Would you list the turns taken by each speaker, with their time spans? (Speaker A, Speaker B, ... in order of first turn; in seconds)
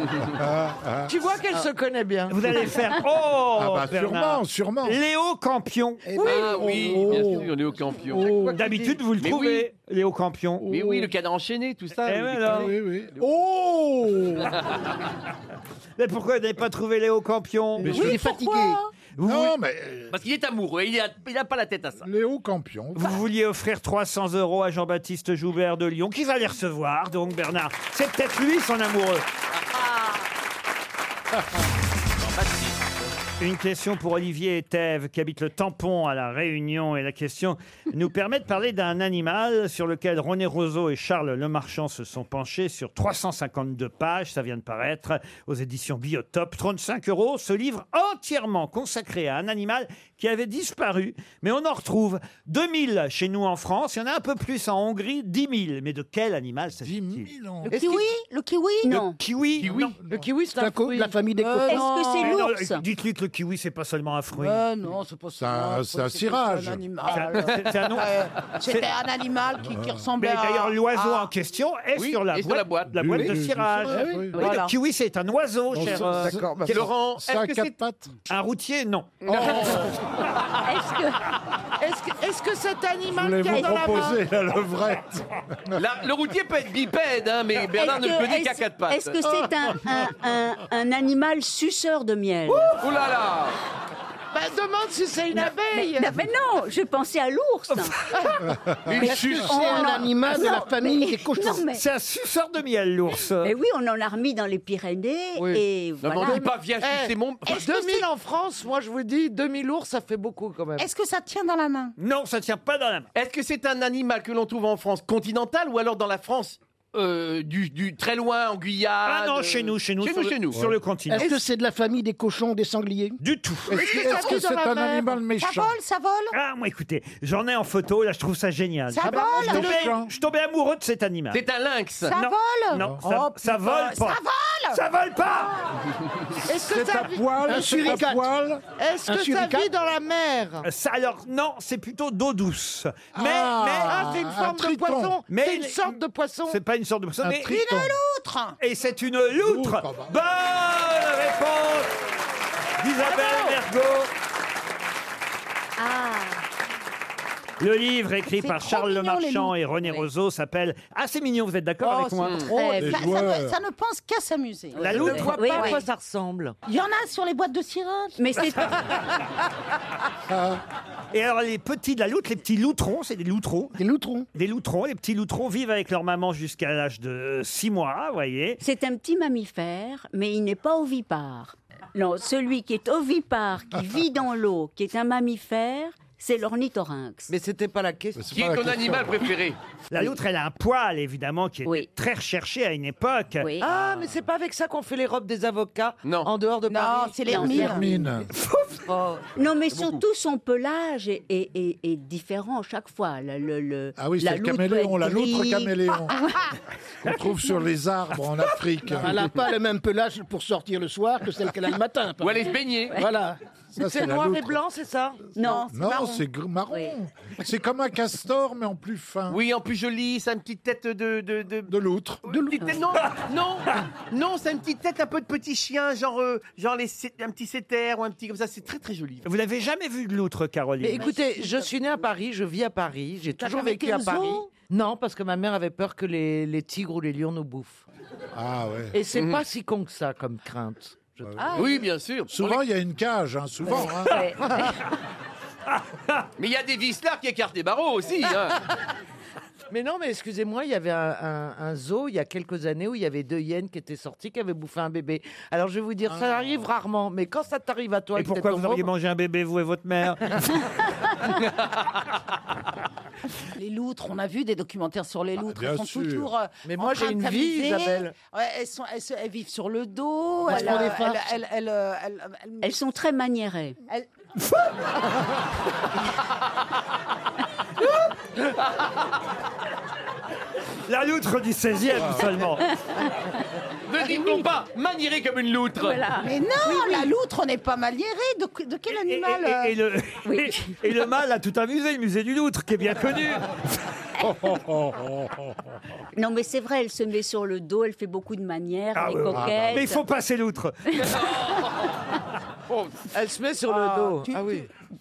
Speaker A: 0.3-1.1, 3.6-5.0, 6.2-7.5, 8.1-8.7, 10.6-11.1, 12.4-14.6, 17.9-18.2, 19.2-20.1, 22.0-23.1, 56.8-57.8, 59.6-60.7, 65.4-66.8, 69.6-70.1, 73.0-74.5, 75.7-78.1, 79.3-79.9, 83.1-85.8, 89.3-90.1, 120.5-120.8, 123.7-125.7, 129.1-130.1, 132.7-133.0, 136.5-138.6, 143.1-145.2, 147.2-147.9, 149.4-150.1, 162.8-163.6, 170.3-170.6, 188.2-189.3, 197.4-198.3, 204.0-206.1, 207.0-209.2, 213.7-214.6, 215.5-219.4, 221.7-222.2, 238.3-239.0, 241.2-241.6, 242.3-244.3, 256.1-256.6, 265.4-266.3, 281.9-282.4, 294.2-295.7, 299.3-299.9
Speaker B: 1.1-2.7, 57.7-58.0, 60.1-61.9, 75.7-76.8, 81.8-84.0, 106.2-110.9, 136.5-137.2, 138.8-140.7, 143.9-146.6, 164.8-166.6, 187.3-188.3, 193.6-197.9, 198.9-199.2, 213.8-215.3, 230.8-237.8, 238.9-241.7, 243.8-244.7, 249.7-258.9, 266.6-268.1, 303.1-304.7
Speaker C: 2.3-6.1, 8.5-10.7, 12.0-12.7, 16.0-18.1, 19.2-19.5, 22.9-29.2, 33.4-57.3, 58.9-60.0, 62.2-64.6, 67.1-68.1, 68.6-68.9, 70.2-76.8, 78.3-79.8, 97.7-98.3, 101.7-103.5, 112.0-113.1, 119.0-121.3, 123.2-124.3, 126.3-131.4, 132.1-134.2, 134.7-135.8, 140.6-144.2, 145.3-147.6, 148.6-151.9, 152.8-154.1, 157.6-162.9, 164.8-165.3, 171.1-173.7, 174.3-178.6, 189.9-193.5, 198.4-198.7, 229.2-231.1, 245.7-246.2, 258.1-260.6, 280.9-282.8, 288.9-293.6, 298.9-301.4
Speaker D: 6.0-6.8, 17.9-18.8, 60.5-61.8, 99.0-101.7, 121.1-123.2, 137.4-138.2, 139.1-139.7, 173.8-174.3, 208.9-213.4, 270.5-271.2
Speaker E: 6.2-8.5, 9.2-9.7, 10.7-12.7, 20.1-22.1, 32.2-32.8, 59.6-60.0, 72.0-73.3, 76.7-77.7, 79.2-79.9, 85.7-89.2, 92.5-93.5, 98.8-100.0, 106.0-107.5, 113.1-120.6, 131.3-132.1, 188.3-189.6, 193.7-194.1, 196.0-196.3, 199.7-200.0, 212.2-213.1, 219.3-221.7, 222.2-229.2, 239.1-239.4, 241.6-242.6, 246.4-248.6, 283.9-286.0, 301.2-301.9, 302.7-303.1
Speaker F: 17.8-18.8, 57.6-59.0, 61.4-62.4, 64.3-71.3, 73.9-74.7, 83.3-84.1, 94.3-96.2, 107.5-108.0, 110.8-111.9, 123.7-126.3, 128.9-129.9, 132.1-134.8, 136.5-137.0, 147.4-148.6, 153.0-153.6, 155.8-156.4, 158.4-159.5, 161.8-165.8, 166.6-168.8, 196.7-198.0, 206.2-206.5, 215.4-216.2, 233.4-234.4, 241.4-241.6, 263.6-272.7, 286.2-289.7, 303.7-304.6
Speaker G: 58.8-59.1, 61.7-62.8, 80.6-81.2, 87.7-92.8, 95.3-98.0, 99.0-101.8, 103.4-106.5, 165.1-165.8, 168.2-168.9, 178.6-187.3, 193.4-193.7, 199.3-206.0, 215.3-215.7, 244.1-244.3, 270.5-270.9, 272.6-273.8, 285.8-287.1, 290.2-290.7, 296.1-300.0